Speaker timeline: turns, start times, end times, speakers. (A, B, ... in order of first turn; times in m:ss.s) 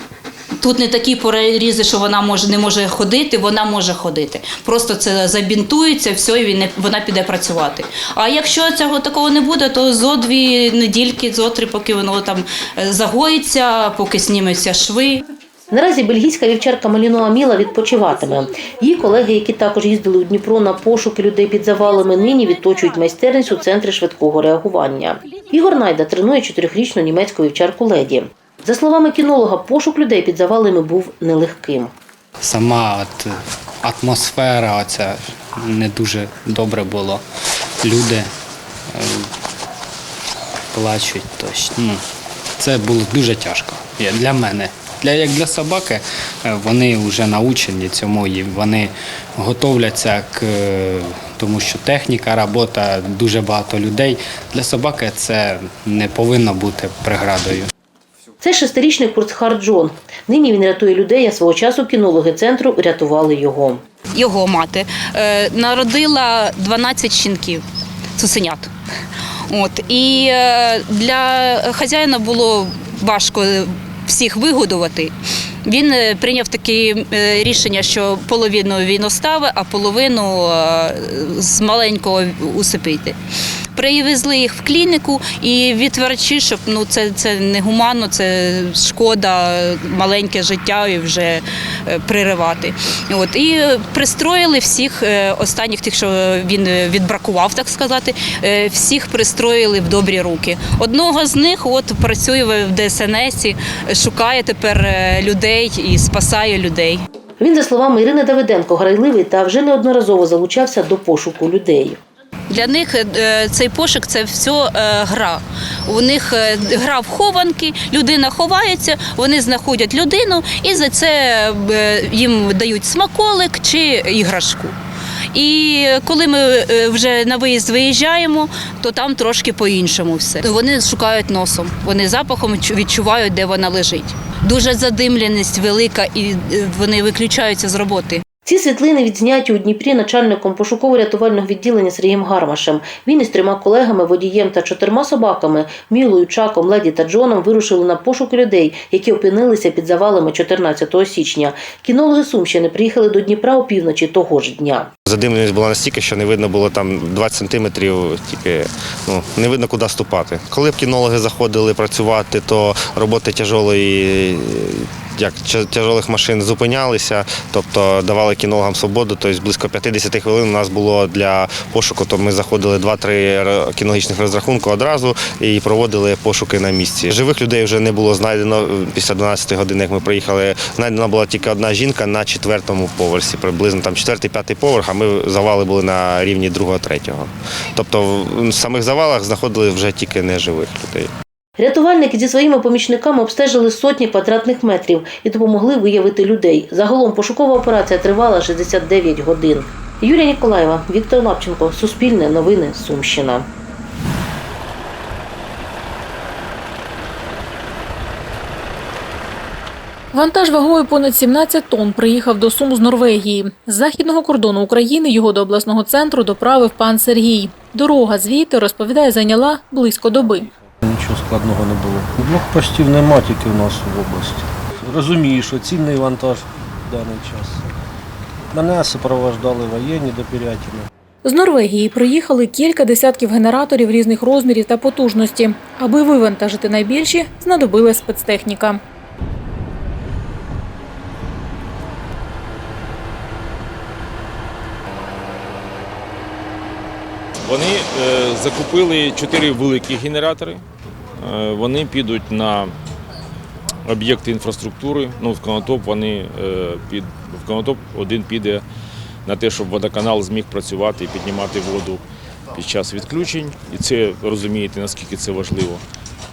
0:00.6-0:15.2 A
0:15.7-0:31.9 B
0:32.4-0:37.2 C
0:37.8-0:38.3 C
0:39.0-0:39.2 C
0:40.7-0:42.0 C
0:42.6-0:57.7 C
0:58.4-1:03.8 B
1:04.2-1:07.6 A
1:08.2-1:08.7 A
1:09.5-1:15.1 A
1:15.6-1:23.2 A
1:23.8-1:47.0 A
1:47.4-1:52.0 B
1:52.5-2:04.7 A
2:05.3-2:18.2 A
2:18.5-2:34.9 B
2:35.1-3:11.1 D
3:11.6-3:23.5 B
3:30.1-3:40.5 E
3:40.8-3:47.7 F
3:48.5-3:50.9 F
3:51.2-3:58.8 E
4:07.4-4:10.6 G
4:11.2-4:12.7 G
4:13.9-4:18.6 G
4:19.3-4:22.0 G
4:22.6-4:25.8 G